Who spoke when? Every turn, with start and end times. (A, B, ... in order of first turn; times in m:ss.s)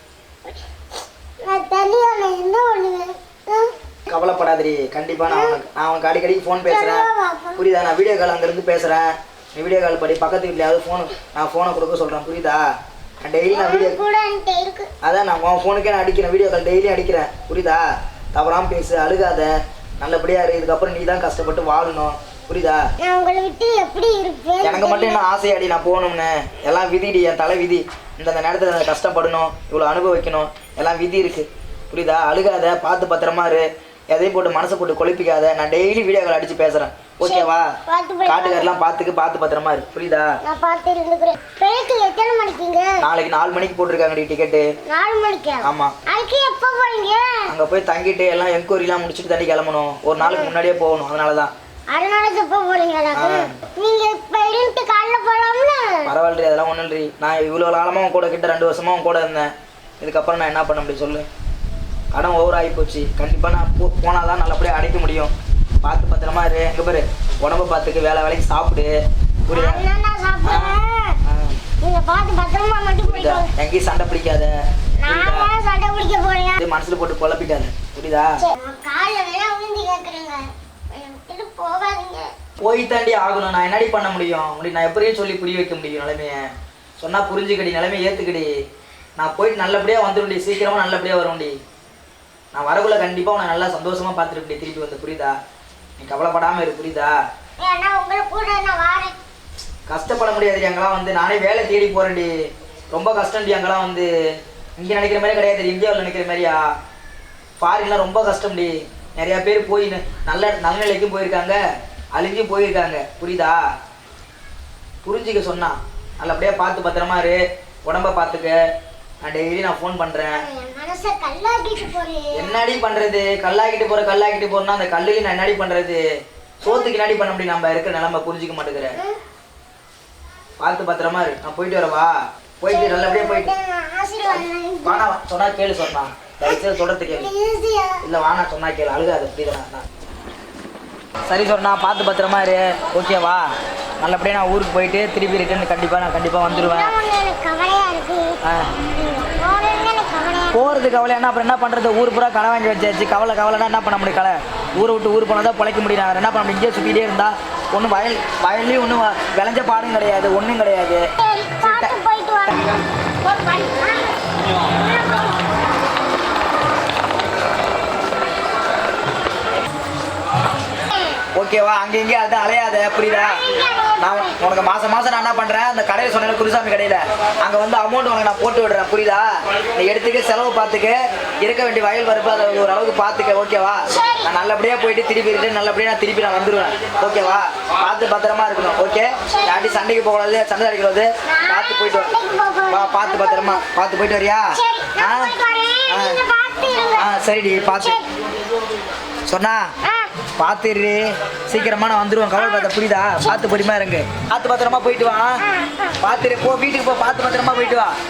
0:01.4-0:03.8 A
0:04.1-0:12.6 B
0:05.3-0:05.6 A
0:06.6-0:07.6 A
0:13.2-0:14.0 B
0:13.5-0:14.9 A
0:15.0-0:22.8 B
0:23.0-0:25.2 A
0:24.6-0:37.7 B
0:37.2-0:38.7 A
0:38.2-0:40.3 B
0:40.4-0:43.0 A
0:43.0-0:44.6 B
0:44.8-0:47.4 A
0:45.6-0:46.0 B
0:47.5-0:51.5 B
0:50.2-0:50.5 A
0:51.9-0:56.1 A
0:53.1-0:53.6 B
0:56.0-1:01.3 B
1:02.1-1:08.9 B
1:09.5-1:09.8 B
1:09.5-1:11.2 A
1:10.4-1:11.6 B
1:11.8-1:13.5 A
1:13.1-1:14.5 B
1:15.0-1:16.6 A
1:15.0-1:15.5 B
1:16.6-1:18.4 B
1:18.4-1:22.3 A
1:22.6-1:26.4 B
1:27.0-1:28.5 B
1:29.2-1:31.6 B
1:32.5-1:35.4 B
1:36.0-1:37.2 B
1:37.6-1:39.2 A
1:39.9-1:42.3 B
1:42.9-1:44.1 B
1:44.8-1:46.6 B
1:47.6-1:51.6 B
1:52.1-1:53.6 B
1:55.0-1:58.6 B
1:59.2-2:00.4 B
2:00.3-2:02.6 A
2:02.3-2:06.0 B
2:06.6-2:09.0 B
2:06.7-2:06.9 A
2:10.6-2:13.5 B
2:12.7-2:15.1 A
2:14.3-2:17.3 B
2:16.4-2:18.0 A
2:18.0-2:19.8 B
2:21.3-2:23.5 B
2:24.0-2:26.9 B
2:26.5-2:30.8 A
2:28.4-2:28.7 B
2:30.5-2:41.0 B
2:41.2-2:45.5 A
2:41.6-2:41.9 B
2:51.3-2:53.4 B
2:53.0-2:54.4 A
2:54.0-3:12.1 B
3:03.9-3:04.3 A
3:09.2-3:09.9 A
3:11.2-3:13.6 A
3:12.7-3:15.3 B
3:14.5-3:17.1 A
3:15.9-3:16.2 B
3:16.9-3:18.0 B
3:17.8-3:18.0 A
3:19.3-3:19.6 B
3:19.8-3:20.1 A
3:20.4-3:25.4 B
3:22.4-3:22.7 A
3:23.2-3:23.5 A
3:25.4-3:26.0 A
3:26.0-3:27.9 B